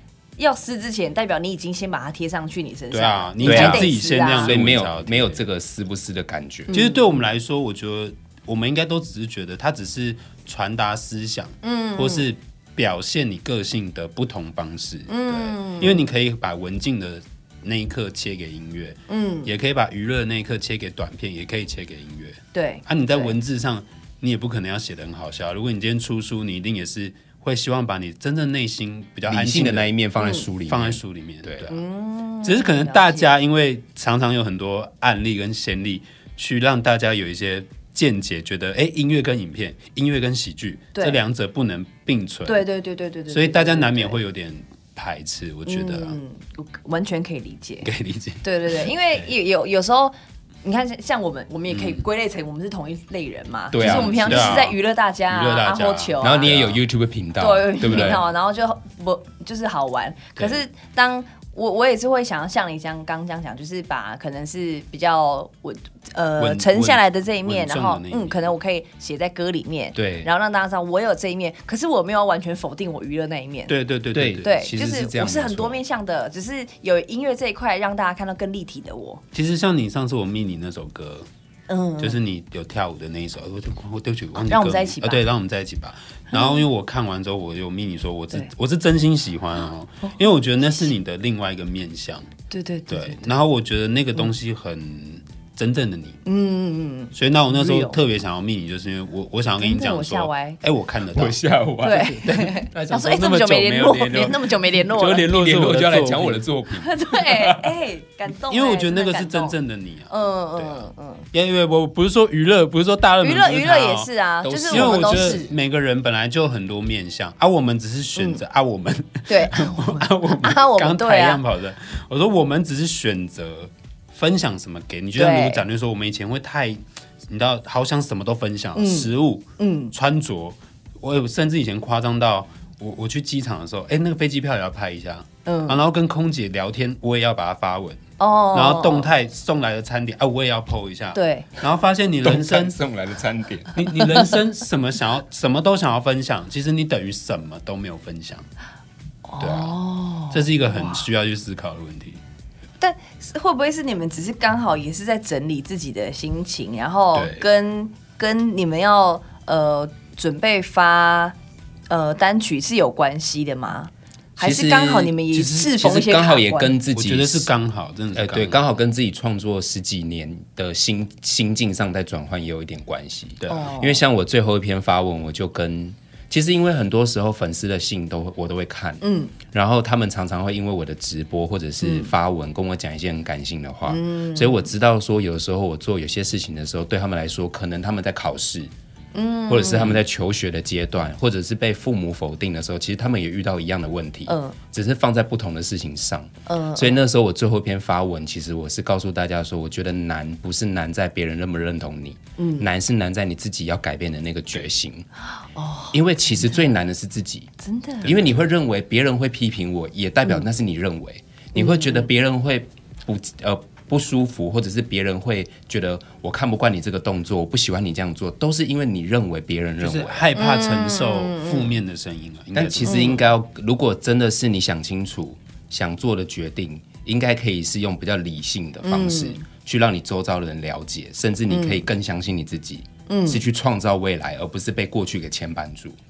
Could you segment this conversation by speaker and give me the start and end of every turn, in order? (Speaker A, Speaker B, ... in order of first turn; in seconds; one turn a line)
Speaker A: 0.4-4.5
Speaker B: 2.9-5.5
Speaker C: 3.4-6.8
Speaker B: 6.7-29.9
Speaker A: 6.7-7.0
Speaker A: 11.6-12.3
Speaker A: 15.1-16.0
Speaker A: 19.1-19.5
Speaker A: 22.5-23.3
Speaker C: 29.3-31.7
Speaker A: 30.2-30.5
Speaker B: 30.7-31.8
Speaker A: 31.7-33.3
Speaker B: 32.4-42.6
Speaker A: 40.9-41.2
Speaker A: 42.5-44.2
Speaker B: 43.3-46.2
Speaker A: 45.6-47.9
Speaker B: 47.8-48.9
Speaker A: 48.4-56.5
Speaker B: 51.7-52.0
Speaker C: 53.7-54.7
Speaker B: 53.8-54.8
Speaker B: 55.3-56.8
Speaker C: 56.2-58.2
Speaker A: 57.4-73.7
Speaker B: 57.9-58.2
Speaker B: 66.4-68.5
Speaker C: 69.9-70.3
Speaker B: 73.7-74.7
Speaker C: 74.1-75.8
Speaker A: 74.4-79.2
Speaker B: 79.3-81.3
Speaker A: 81.7-82.2
Speaker B: 82.0-92.3
Speaker A: 84.4-85.2
Speaker A: 86.3-86.6
Speaker A: 92.5-93.3
Speaker B: 92.9-96.2
Speaker A: 96.2-98.0
Speaker B: 97.1-101.4
Speaker A: 99.6-100.6
Speaker C: 101.1-102.2
Speaker A: 101.8-105.3
Speaker B: 101.9-106.5
Speaker C: 105.3-107.7
Speaker A: 106.7-109.6
Speaker B: 108.5-114.1
Speaker A: 110.1-111.2
Speaker A: 113.2-115.5
Speaker C: 114.4-115.5
Speaker B: 114.7-138.0
Speaker A: 118.2-118.4
Speaker A: 119.3-121.4
Speaker A: 125.1-125.6
Speaker A: 128.7-129.9
Speaker A: 135.4-135.8
Speaker A: 138.2-139.1
Speaker B: 138.5-142.8
Speaker A: 141.1-141.5
Speaker C: 142.2-143.9
Speaker B: 143.7-148.4
Speaker A: 149.3-151.0
Speaker B: 149.4-149.7
Speaker B: 150.3-152.2
Speaker A: 152.8-161.3
Speaker B: 157.1-157.4
Speaker A: 161.9-166.7
Speaker C: 164.4-167.5
Speaker B: 166.9-168.6
Speaker C: 168.1-188.7
Speaker B: 173.4-173.7
Speaker A: 173.5-174.0
Speaker A: 179.0-179.3
Speaker A: 181.8-182.1
Speaker A: 183.9-184.7
Speaker A: 189.1-190.0
Speaker C: 189.5-205.1
Speaker A: 194.3-194.6
Speaker A: 196.5-197.0
Speaker A: 202.4-202.7
Speaker A: 205.3-206.7
Speaker C: 205.9-207.5
Speaker A: 207.6-208.1
Speaker B: 208.0-208.5
Speaker C: 208.0-220.2
Speaker A: 211.5-212.1
Speaker B: 219.8-223.2
Speaker A: 220.3-221.7
Speaker C: 222.5-236.0
Speaker A: 222.8-223.2
Speaker A: 228.8-229.4
Speaker A: 231.5-231.8
Speaker A: 233.1-233.4